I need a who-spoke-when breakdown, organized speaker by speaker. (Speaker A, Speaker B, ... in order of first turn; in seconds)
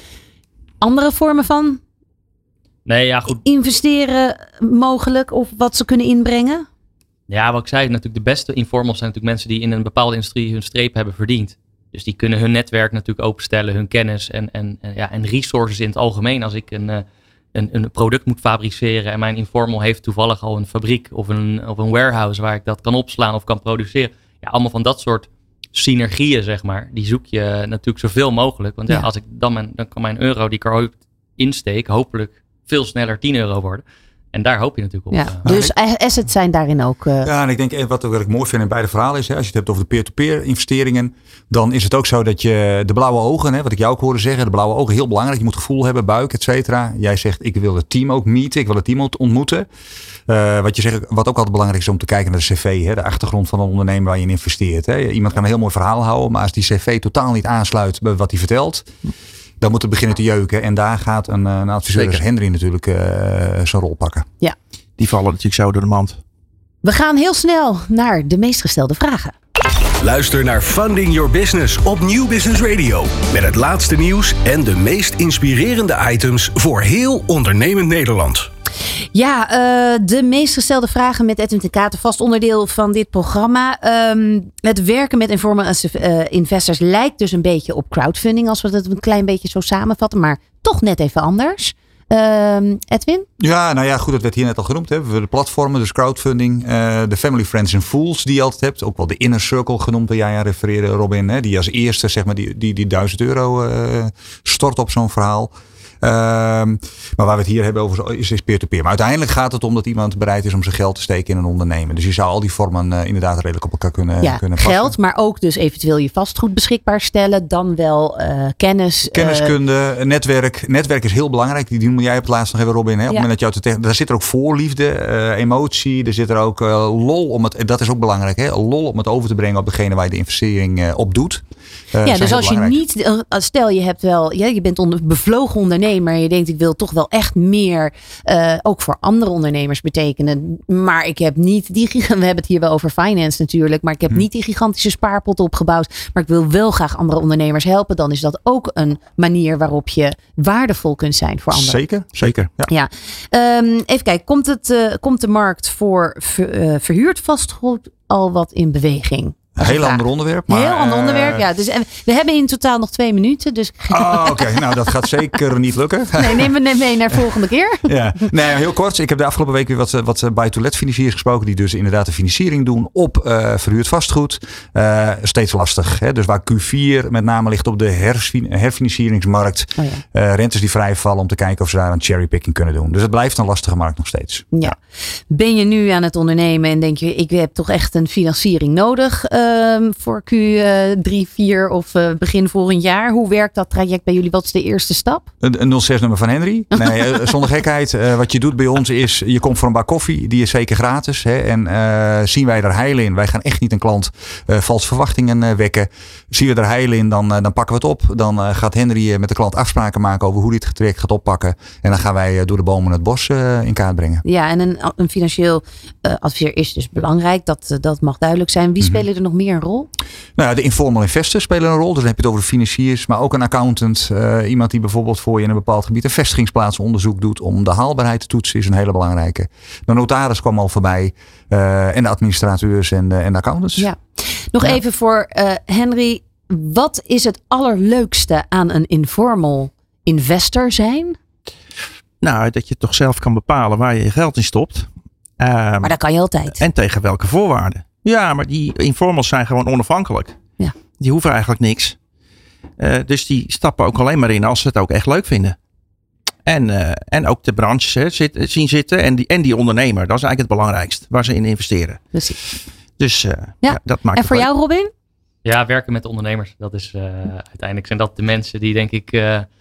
Speaker A: 0.8-1.8, 3.4-6.7, 35.1-37.3, 66.8-69.3, 79.1-93.2, 114.2-119.5, 132.0-151.8, 152.7-164.6, 166.2-167.9, 179.8-180.0, 184.5-184.8, 185.3-195.3, 196.8-197.2, 214.2-219.9, 233.8-241.2, 245.8-246.6, 263.6-264.9
Speaker B: 2.9-3.4, 7.3-35.6, 265.4-269.5
Speaker C: 35.4-35.7, 37.2-49.7, 50.3-58.9, 59.6-64.2, 93.4-114.9, 119.1-132.8, 151.5-152.7, 159.6-161.4, 163.9-166.5, 167.8-184.7, 195.4-214.2, 218.8-219.0, 220.3-233.9
Speaker D: 61.9-62.2, 65.0-66.2, 242.2-245.9, 246.5-250.4, 251.0-252.0, 252.8-255.6, 256.4-262.0, 263.0-264.5
Speaker E: 70.0-78.5